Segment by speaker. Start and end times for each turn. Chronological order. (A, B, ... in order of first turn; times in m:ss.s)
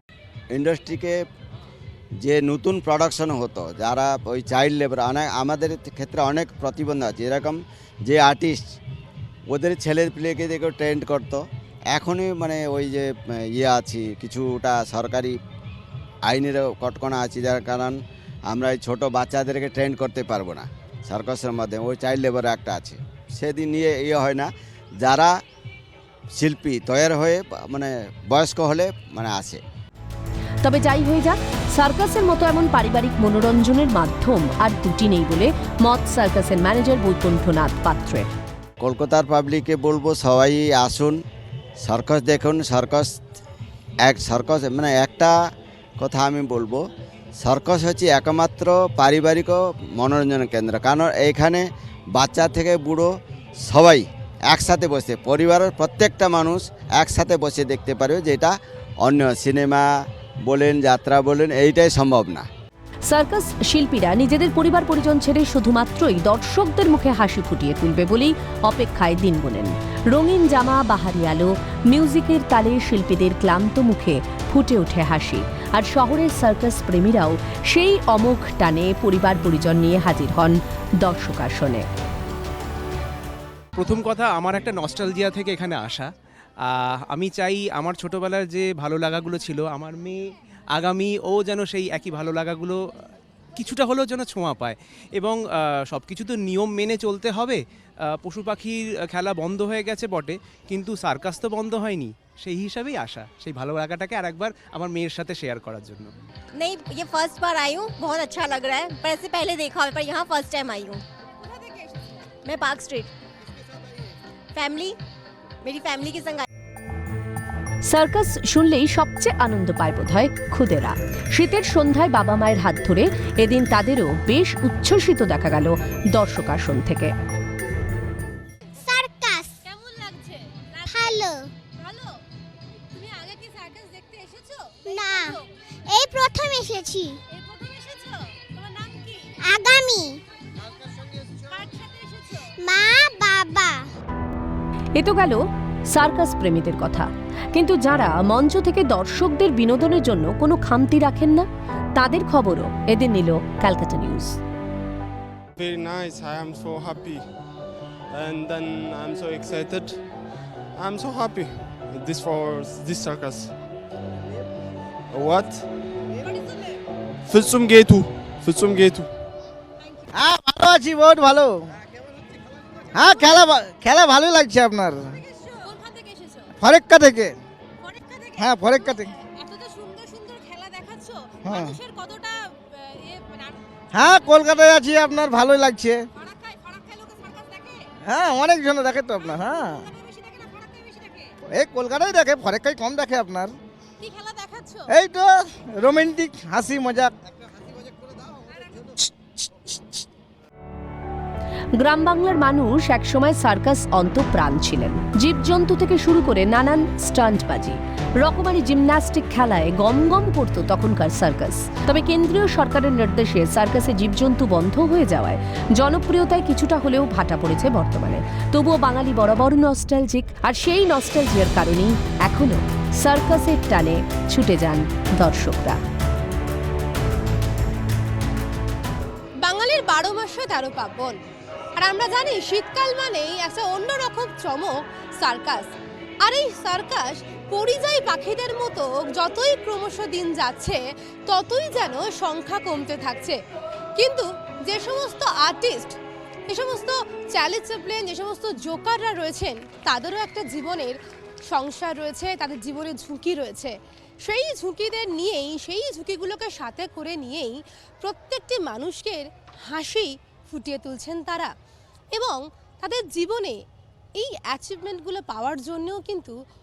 0:00.5-0:01.2 A
0:02.2-0:08.6 A
0:09.5-0:15.4 A
0:16.3-0:18.0 A
0:18.5-0:25.3 A
0:26.4-0:29.6 A
0:30.6-0:38.3 B
0:38.8-0:41.2 A
0:41.8-0:43.1 A
0:44.1-0:45.3 A
0:46.0-0:46.8 A
0:47.4-0:53.1 A
0:53.7-0:59.9 A
1:00.5-1:02.5 A
1:03.1-1:21.9 B
1:23.8-1:26.1 C
1:26.6-1:32.8 C
1:33.6-1:46.1 C
1:46.6-1:51.0 D
1:51.4-1:52.2 E
1:52.4-1:53.1 D
1:54.6-1:55.0 D
1:55.6-1:56.5 D
1:57.9-2:07.1 B
2:08.8-2:09.6 F
2:09.6-2:12.2 E
2:10.9-2:11.5 F
2:12.9-2:15.5 E
2:14.8-2:17.2 F
2:17.3-2:19.4 E
2:19.4-2:20.2 F
2:21.4-2:22.5 E
2:22.6-2:23.9 F
2:25.0-2:34.4 B
2:35.6-2:37.3 G
2:38.1-2:40.0 G
2:40.8-2:43.5 G
2:45.1-2:45.7 G
2:47.3-2:49.1 G
2:50.1-2:51.7 H
2:52.9-2:55.2 H
2:55.3-2:56.5 E
2:56.6-2:57.4 H
2:57.8-3:03.6 E
2:58.4-2:59.1 H
3:01.4-3:01.8 H
3:03.9-3:06.0 H
3:06.2-3:07.9 E
3:08.1-3:09.8 H
3:09.2-3:11.3 E
3:11.5-3:13.5 H
3:14.0-3:14.9 E
3:14.9-3:17.1 H
3:18.5-3:18.9 E
3:21.8-3:45.8 B
3:49.4-3:51.2 E
3:51.8-4:03.4 E
4:04.0-4:06.0 E
4:06.5-4:11.0 E
4:11.5-4:21.5 E
4:22.1-4:23.6 E
4:24.2-4:26.4 E